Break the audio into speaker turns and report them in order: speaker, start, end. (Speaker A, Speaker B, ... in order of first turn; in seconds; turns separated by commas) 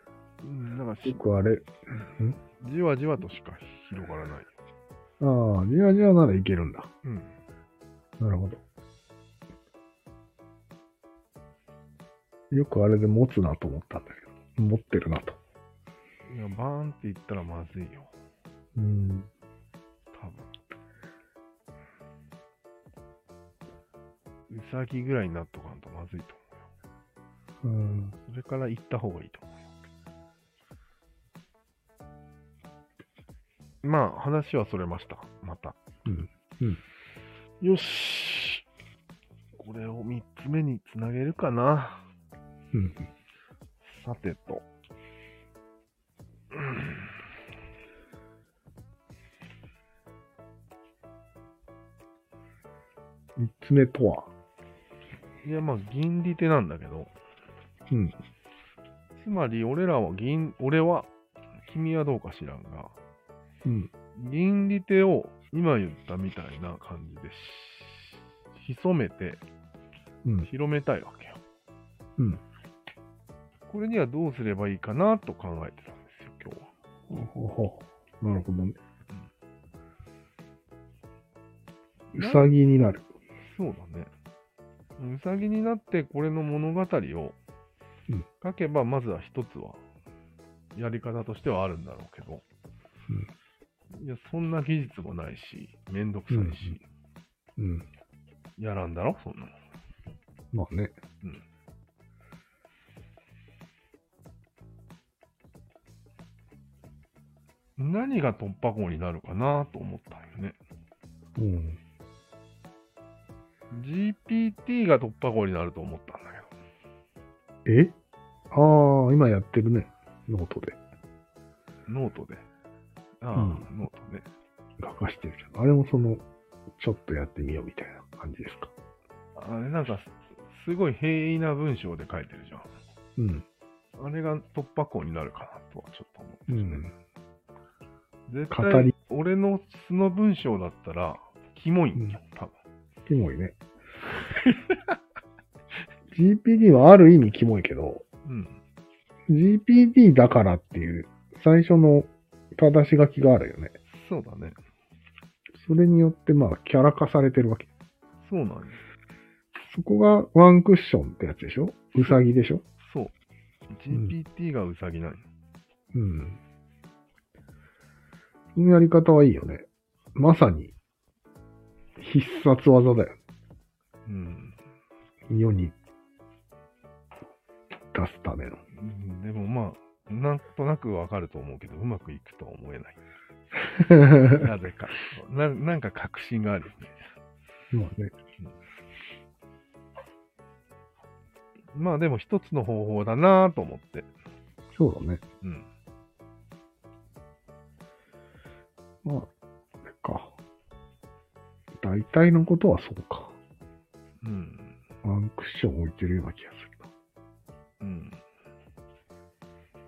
Speaker A: 0.4-1.2, Speaker B: 1.0-2.4, Speaker A: 2.6-4.5, Speaker B: 5.2-6.9, Speaker A: 7.0-7.3, Speaker B: 8.2-8.6, Speaker B: 12.5-15.4, Speaker A: 16.3-18.1, Speaker B: 18.8-19.3, Speaker A: 20.1-20.5, Speaker A: 24.5-26.6, Speaker B: 27.6-28.1, Speaker A: 28.2-29.6, Speaker A: 33.8-35.8, Speaker B: 36.0-36.8, Speaker A: 37.6-38.6, Speaker A: 39.6-42.0, Speaker B: 42.7-43.1, Speaker A: 43.8-44.6, Speaker A: 46.5-47.1, Speaker B: 53.4-54.3, Speaker A: 55.4-57.1, Speaker B: 57.9-58.1, Speaker A: 59.1-61.1, Speaker A: 61.6-62.9, Speaker B: 63.6-63.9, Speaker A: 64.2-69.4, Speaker A: 70.4-71.4, Speaker A: 73.7-76.7, Speaker B: 77.1-78.8, Speaker B: 82.1-83.1, Speaker A: 82.2-82.5, Speaker A: 83.4-84.1, Speaker A: 85.0-87.4, Speaker A: 88.4-89.8, Speaker A: 90.7-92.4, Speaker A: 93.9-96.8, Speaker B: 96.3-96.8, Speaker B: 97.6-97.8, Speaker A: 98.6-99.5, Speaker B: 100.5-100.9, Speaker A: 107.8-110.6, Speaker B: 111.3-111.8, Speaker A: 113.7-116.5, Speaker B: 117.7-117.9, Speaker B: 118.5-120.8, Speaker A: 121.9-122.4, Speaker A: 123.2-124.2, Speaker B: 123.3-123.7, Speaker B: 124.8-126.2, Speaker B: 126.8-128.7, Speaker A: 129.3-132.7, Speaker B: 133.2-133.4, Speaker A: 134.0-136.8, Speaker B: 136.5-136.9, Speaker A: 138.3-142.5, Speaker B: 138.5-138.9, Speaker B: 143.1-143.6, Speaker A: 144.3-144.9, Speaker B: 146.1-148.0, Speaker A: 148.2-148.6, Speaker B: 149.3-153.7, Speaker A: 153.9-154.6, Speaker B: 155.6-157.7, Speaker A: 158.2-158.8, Speaker B: 159.6-162.6, Speaker A: 162.8-163.1, Speaker A: 163.7-165.2, Speaker B: 165.9-166.4, Speaker B: 168.6-170.7, Speaker B: 172.0-173.2, Speaker A: 174.1-174.6, Speaker B: 175.3-175.7, Speaker B: 177.9-178.6, Speaker A: 178.7-183.0, Speaker B: 183.6-184.5, Speaker A: 184.2-187.1, Speaker B: 187.7-188.1, Speaker A: 191.7-194.1, Speaker B: 194.8-195.2, Speaker A: 195.4-195.7, Speaker B: 199.0-199.3, Speaker B: 199.8-200.3, Speaker B: 201.8-203.3, Speaker A: 204.2-204.8, Speaker B: 205.0-206.9, Speaker A: 207.8-208.2